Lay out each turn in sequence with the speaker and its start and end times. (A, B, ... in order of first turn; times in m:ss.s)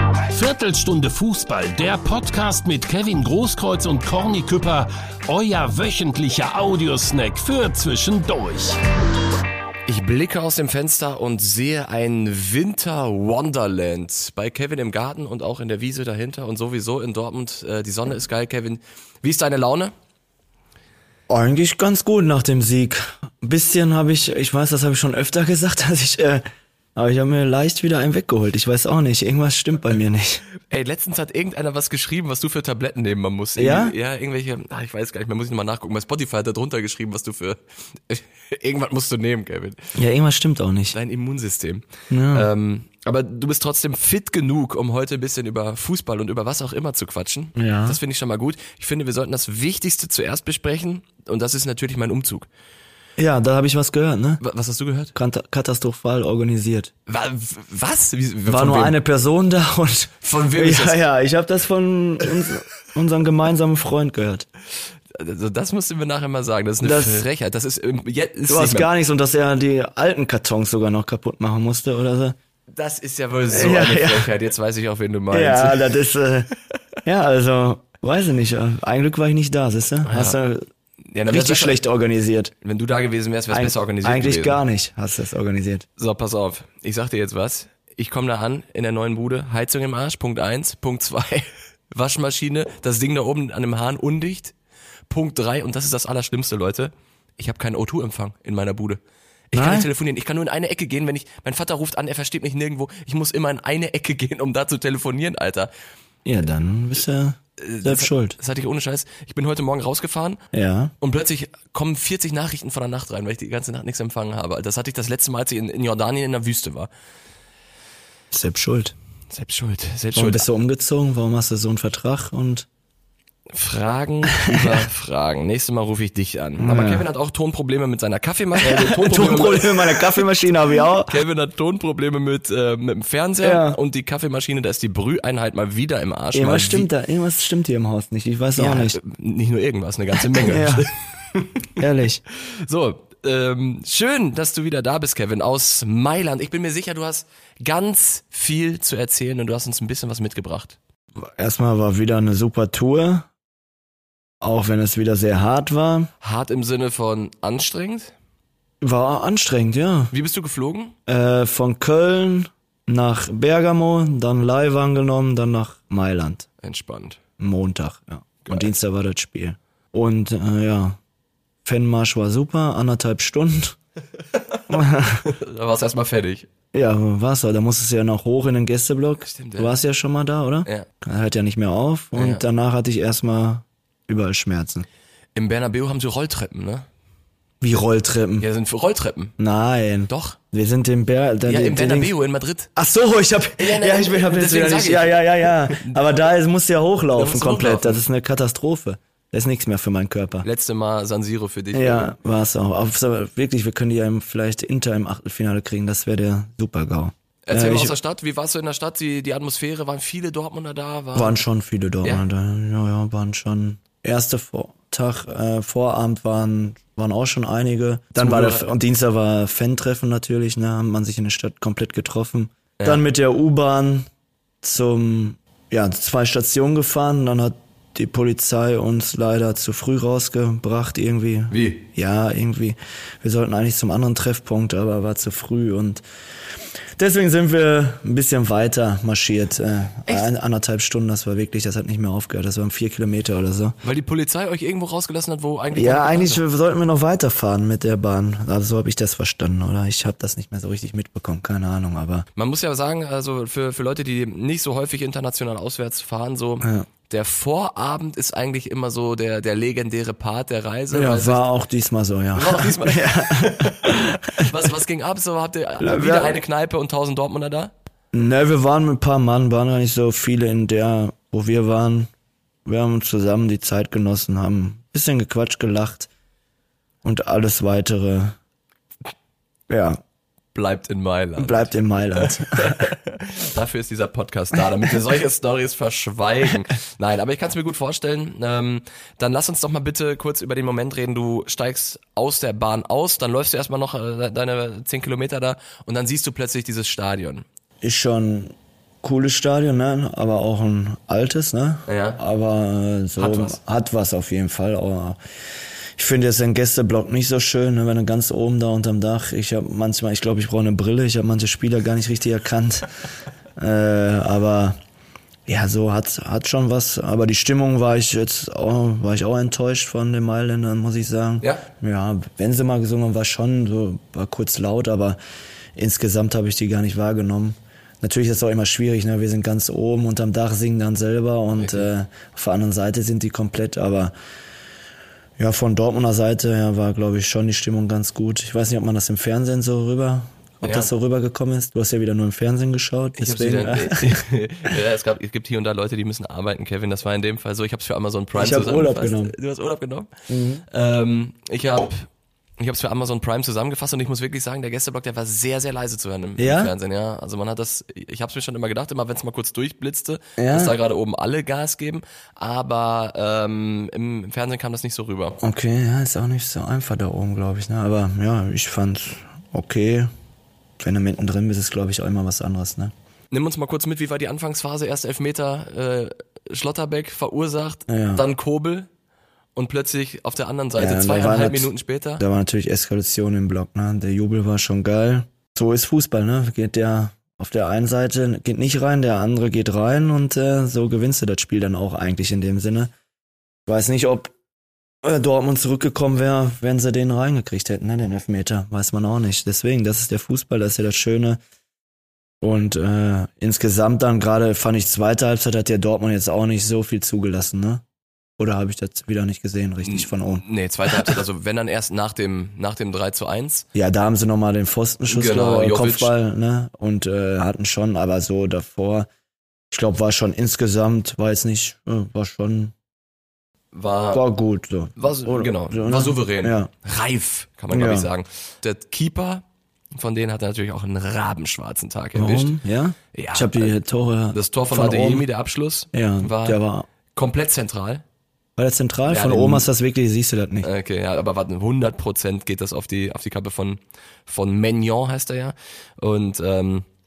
0:00.3-0:08.8 A
0:09.9-0:19.9 B
0:21.3-0:26.4 C
0:27.0-0:30.4 C
0:30.7-0:39.9 B
0:33.6-0:34.0 C
0:40.0-0:41.0 C
0:40.9-0:52.5 B
0:42.1-0:42.5 C
0:47.6-0:48.0 C
0:53.2-0:54.4 C
0:54.4-0:55.2 B
0:55.2-0:56.9 C
0:57.1-0:59.0 B
0:58.5-1:04.5 C
1:00.2-1:01.0 B
1:05.1-1:08.9 B
1:06.8-1:07.3 C
1:08.5-1:12.4 C
1:12.7-1:15.9 B
1:13.5-1:14.3 C
1:15.3-1:16.5 C
1:17.0-1:20.7 C
1:20.1-1:20.4 B
1:21.1-1:21.8 B
1:21.3-1:22.5 C
1:22.6-1:24.6 B
1:23.5-1:25.9 C
1:26.0-1:34.5 B
1:35.1-1:39.0 B
1:39.5-1:45.7 B
1:39.5-1:39.9 C
1:46.2-1:48.4 C
1:47.6-1:50.4 B
1:50.5-1:50.9 C
1:51.0-1:56.9 B
1:58.3-1:59.0 C
1:59.3-2:00.5 B
2:00.1-2:02.7 C
2:03.5-2:10.2 B
2:06.6-2:07.0 C
2:08.6-2:11.2 C
2:11.0-2:16.9 B
2:13.4-2:13.8 C
2:16.3-2:19.0 C
2:18.6-2:21.6 B
2:20.3-2:20.9 C
2:21.8-2:22.2 C
2:22.3-2:30.8 B
2:31.2-2:33.3 C
2:34.4-2:36.1 C
2:36.2-2:38.1 B
2:38.8-2:40.1 C
2:40.1-2:41.0 B
2:41.1-2:46.5 C
2:46.6-2:47.2 B
2:47.4-2:51.0 C
2:48.4-2:48.7 B
2:51.6-2:53.8 C
2:54.7-2:55.3 C
2:55.2-2:56.5 B
2:56.7-3:04.8 C
2:59.2-2:59.7 B
3:02.2-3:02.4 B
3:05.3-3:06.8 B
3:07.6-3:08.5 C
3:08.4-3:09.3 B
3:09.4-3:12.1 C
3:10.1-3:10.4 B
3:11.4-3:12.7 B
3:12.8-3:20.4 C
3:13.6-3:16.0 B
3:17.1-3:18.0 B
3:20.4-3:22.1 B
3:21.7-3:27.9 C
3:27.4-3:31.4 B
3:31.1-3:44.1 C
3:38.2-3:38.7 B
3:44.6-3:56.0 C
3:51.5-3:51.8 B
3:57.0-4:03.8 C
4:03.8-4:06.4 B
4:05.7-4:12.3 C
4:12.4-4:21.4 B
4:20.9-4:24.7 C
4:22.4-4:27.7 B
4:25.8-4:26.4 C
4:28.1-4:32.1 C
4:32.6-4:36.1 C
4:37.0-4:38.4 C
4:39.7-4:40.0 C
4:40.5-4:57.4 B
4:41.4-4:42.9 C
4:57.8-5:05.2 C
5:01.9-5:02.2 B
5:03.2-5:03.6 B
5:06.0-5:12.9 C
5:13.6-5:14.8 C
5:15.4-5:25.2 C
5:25.8-5:34.1 C
5:31.6-5:31.9 B
5:35.4-5:44.2 C
5:40.6-5:40.9 B
5:43.2-5:50.1 B
5:48.3-5:49.3 C
5:50.3-5:50.6 C
5:50.7-5:52.1 B
5:52.6-6:05.4 B
5:56.4-5:56.7 C
6:00.4-6:00.8 C
6:05.4-6:10.1 C
6:10.8-6:12.9 C
6:13.3-6:18.9 B
6:17.9-6:18.2 C
6:19.6-6:22.2 B
6:20.8-6:32.9 C
6:33.6-6:34.3 C
6:35.0-6:41.4 C
6:42.4-6:47.8 C
6:48.4-6:51.2 C
6:49.8-6:53.7 B
6:53.8-6:59.1 C
6:55.1-6:56.1 B
6:59.7-7:02.8 C
7:03.7-7:04.2 B
7:04.1-7:06.7 C
7:05.0-7:09.4 B
7:07.7-7:08.1 C
7:09.9-7:12.6 B
7:12.2-7:15.2 C
7:13.1-7:13.7 B
7:14.3-7:16.6 B
7:15.9-7:16.9 C
7:17.1-7:18.0 B
7:18.6-7:20.7 C
7:19.1-7:19.7 B
7:20.6-7:26.8 B